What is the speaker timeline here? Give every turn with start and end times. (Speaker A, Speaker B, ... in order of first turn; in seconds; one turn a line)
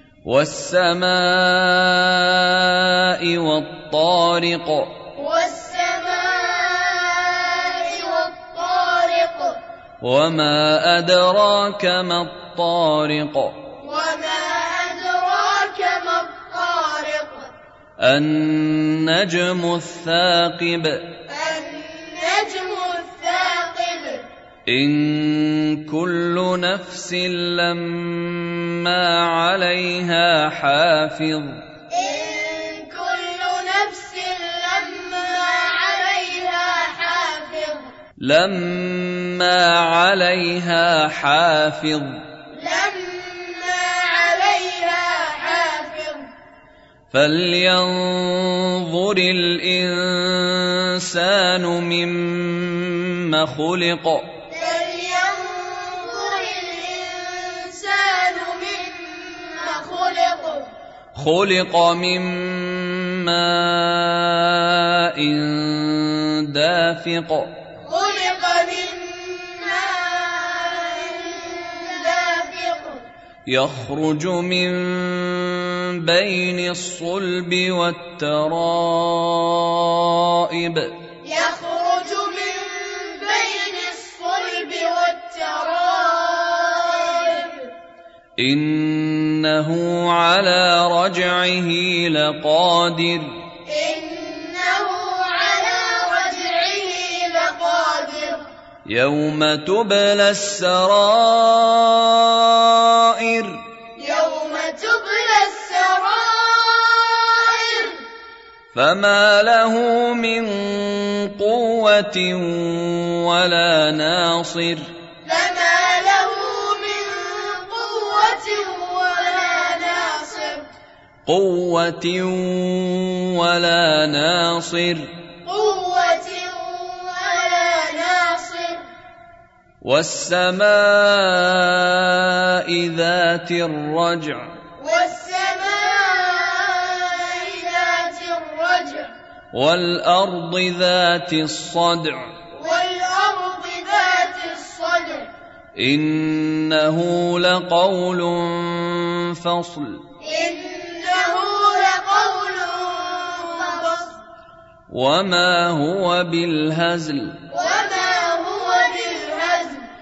Speaker A: 0.2-5.1
Speaker B: 5.2-9.6
Speaker A: 10.0-13.6
Speaker B: 13.7-17.5
Speaker A: 18.0-21.2
Speaker B: 21.3-24.3
Speaker A: 24.7-31.6
Speaker B: 31.9-37.9
Speaker A: 38.2-42.2
Speaker B: 42.5-46.3
Speaker A: 47.1-54.3
Speaker B: 54.5-60.7
Speaker A: 61.1-67.6
Speaker B: 67.8-73.0
Speaker A: 73.5-81.0
Speaker B: 81.2-87.7
Speaker A: 88.4-93.4
Speaker B: 93.7-98.5
Speaker A: 98.9-103.7
Speaker B: 104.0-108.1
Speaker A: 108.7-114.9
Speaker B: 115.2-120.7
Speaker A: 121.3-125.2
Speaker B: 125.4-128.9
Speaker A: 129.8-134.6
Speaker B: 134.8-139.1
Speaker A: 139.5-142.4
Speaker B: 142.5-145.3
Speaker A: 145.8-150.1
Speaker B: 150.2-154.2
Speaker A: 154.9-157.5
Speaker B: 157.5-159.9